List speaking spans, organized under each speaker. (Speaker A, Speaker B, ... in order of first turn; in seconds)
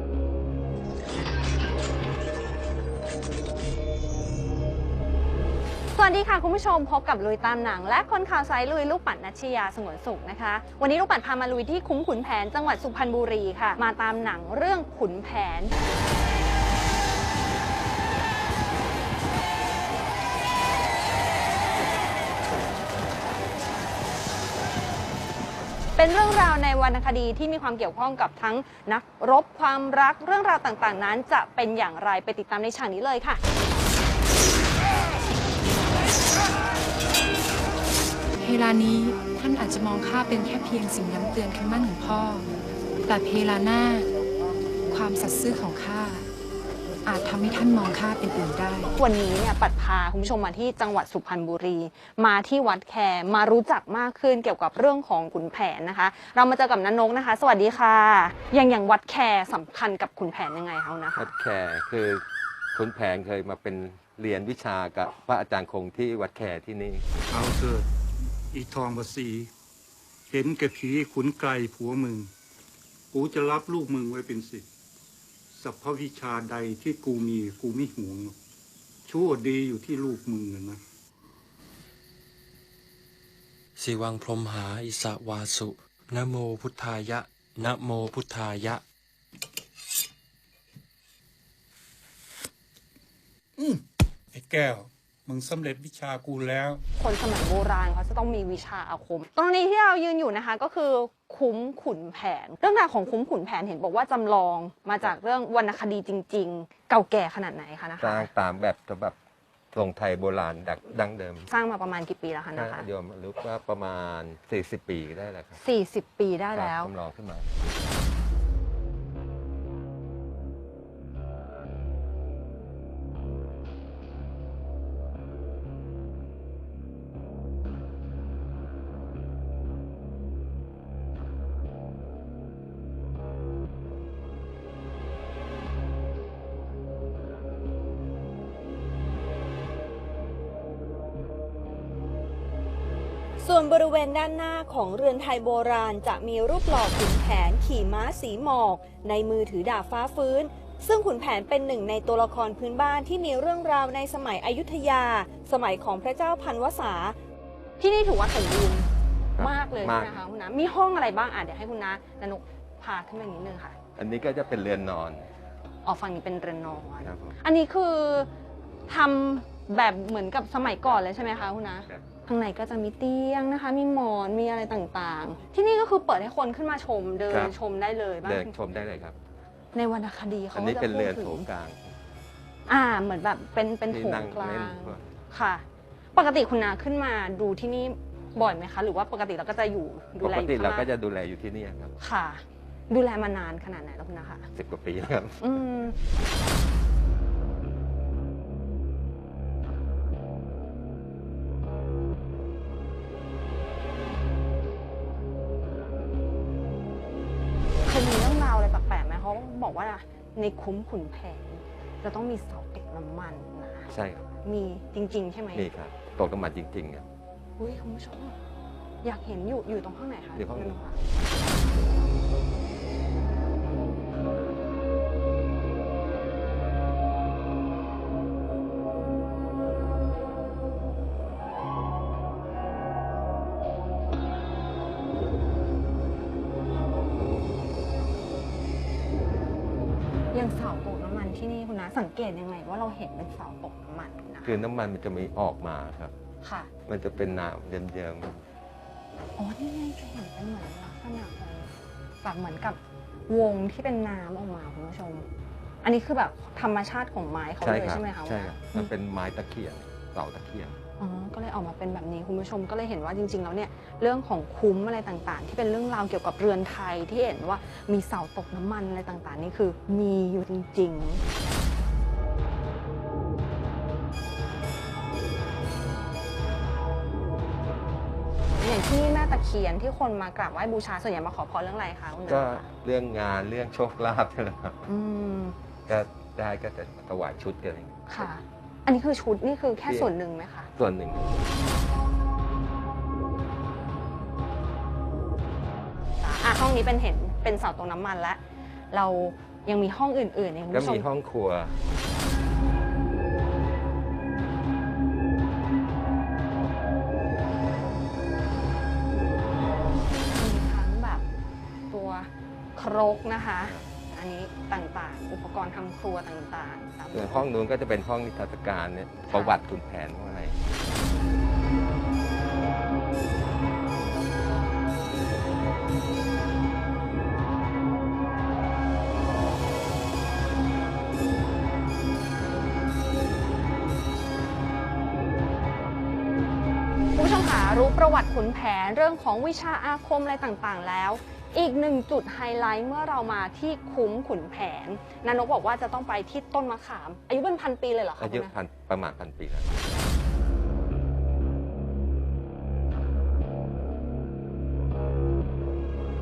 Speaker A: 5.9-15.7, 26.0-33.4, 48.9-61.3, 97.0-108.3, 111.5-112.9, 115.6-116.9, 143.4-157.2, 157.8-163.8, 165.8-168.3, 168.9-178.5, 179.7-181.5, 182.7-185.6, 186.2-190.9, 192.0-194.5, 195.4-196.0, 207.8-213.9, 214.4-215.7, 217.6-218.4, 219.0-221.0, 240.3-244.6, 246.4-246.7, 249.4-251.7, 252.2-255.3, 255.8-258.9, 261.0-271.2, 278.6-282.7, 284.9-285.6, 288.1-290.7, 296.2-298.4, 298.9-301.1, 310.1-311.2, 311.9-317.5, 319.3-319.6, 337.1-348.5
Speaker B: 38.4-42.5, 43.1-44.1, 44.9-46.3, 47.1-48.9
Speaker C: 61.1-67.0, 108.0-109.2, 109.7-111.5, 112.5-115.6, 116.5-117.5, 159.4-160.2, 164.0-165.3, 167.0-167.3, 170.9-172.0, 177.3-177.6, 178.2-179.2, 180.5-181.9, 183.9-185.1, 190.2-191.9, 194.6-195.5, 213.9-214.3, 215.5-217.1, 220.3-220.8, 244.4-246.1, 246.9-248.4, 257.6-260.8, 282.3-284.9, 285.9-288.3, 289.9-290.1, 290.8-291.4, 300.7-301.8, 317.1-320.6, 348.2-349.7
Speaker D: 67.3-67.9, 68.5-69.5, 70.3-72.3, 73.1-74.7, 75.5-78.4, 79.1-80.8, 93.6-96.8
Speaker E: 83.8-88.8